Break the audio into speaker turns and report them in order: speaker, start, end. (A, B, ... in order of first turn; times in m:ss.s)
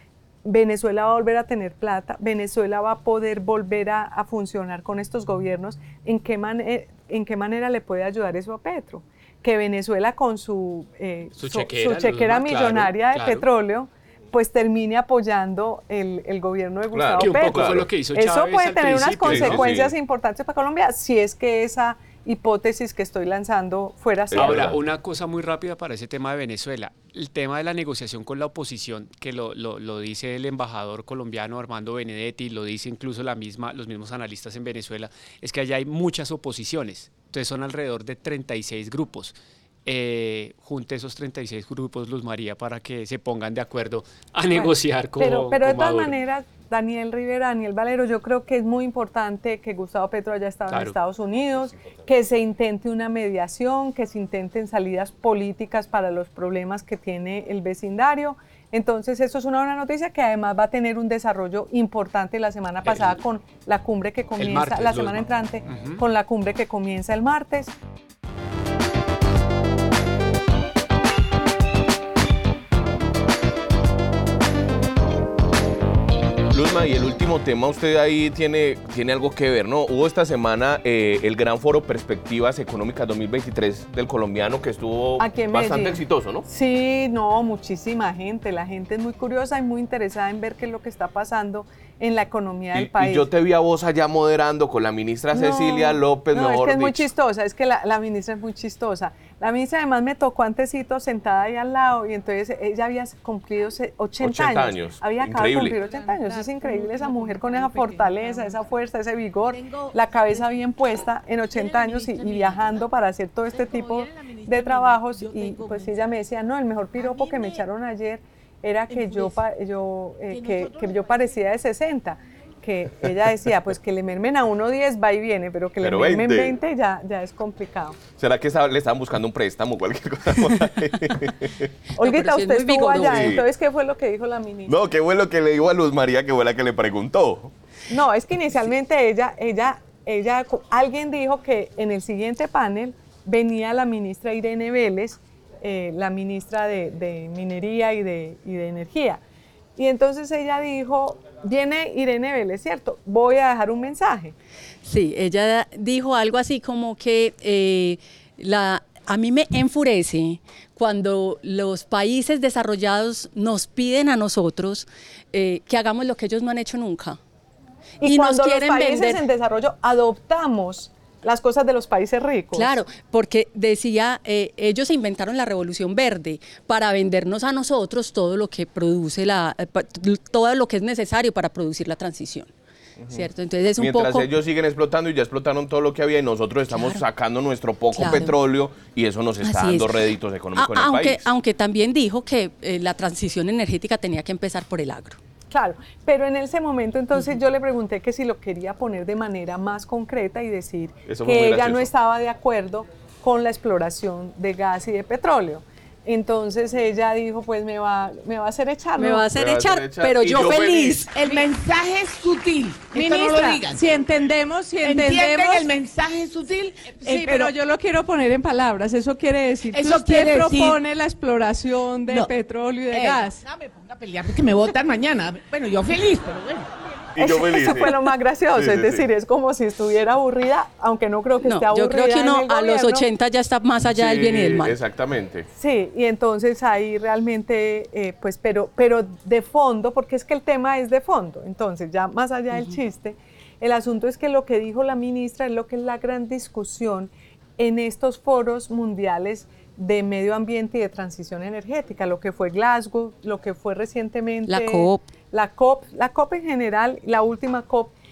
0:00.4-0:24.7 A
0:11.4-0:13.4 B
0:16.9-0:17.9 C
0:17.2-0:19.9 B
0:19.3-0:19.7 C
0:24.3-0:24.8 C
0:24.3-0:46.2 B
0:44.5-1:07.7 A
1:02.9-1:03.1 B
1:04.4-1:06.0 B
1:16.5-1:26.5 C
1:25.2-1:33.3 A
1:32.7-1:37.1 C
1:35.3-2:08.0 A
1:44.2-1:45.8 C
1:45.9-1:48.5 D
1:51.6-1:52.6 D
1:53.6-1:56.0 D
1:57.0-1:57.6 D
1:58.9-1:59.4 D
2:00.3-2:01.1 D
2:05.8-2:06.6 C
2:08.2-2:11.7 C
2:12.0-2:14.8 A
2:12.0-2:13.4 E
2:13.0-2:13.4 C
2:14.7-2:17.5 C
2:17.9-2:29.2 A
2:29.8-2:34.4 A
2:34.8-2:47.2 E
2:48.0-2:52.8 A
2:48.0-2:49.2 E
2:52.6-3:02.5 E
3:03.0-3:11.3 C
3:03.1-3:04.3 E
3:06.7-3:07.0 E
3:07.9-3:08.4 E
3:09.4-3:10.0 E
3:10.6-3:15.2 E
3:15.5-3:29.3 A
3:21.1-3:21.9 C
3:29.0-3:31.1 E
3:29.4-3:31.1 C
3:31.1-3:37.6 D
3:31.2-3:31.5 A
3:32.9-3:35.7 A
3:37.0-3:43.4 A
3:39.7-3:40.9 D
3:42.1-3:42.3 D
3:42.9-3:46.7 D
3:47.1-3:48.0 C
3:47.2-3:53.1 A
3:48.5-3:49.1 C
3:51.4-3:54.8 E
3:53.8-3:55.5 C
3:55.6-4:17.9 A
4:14.5-4:15.1 E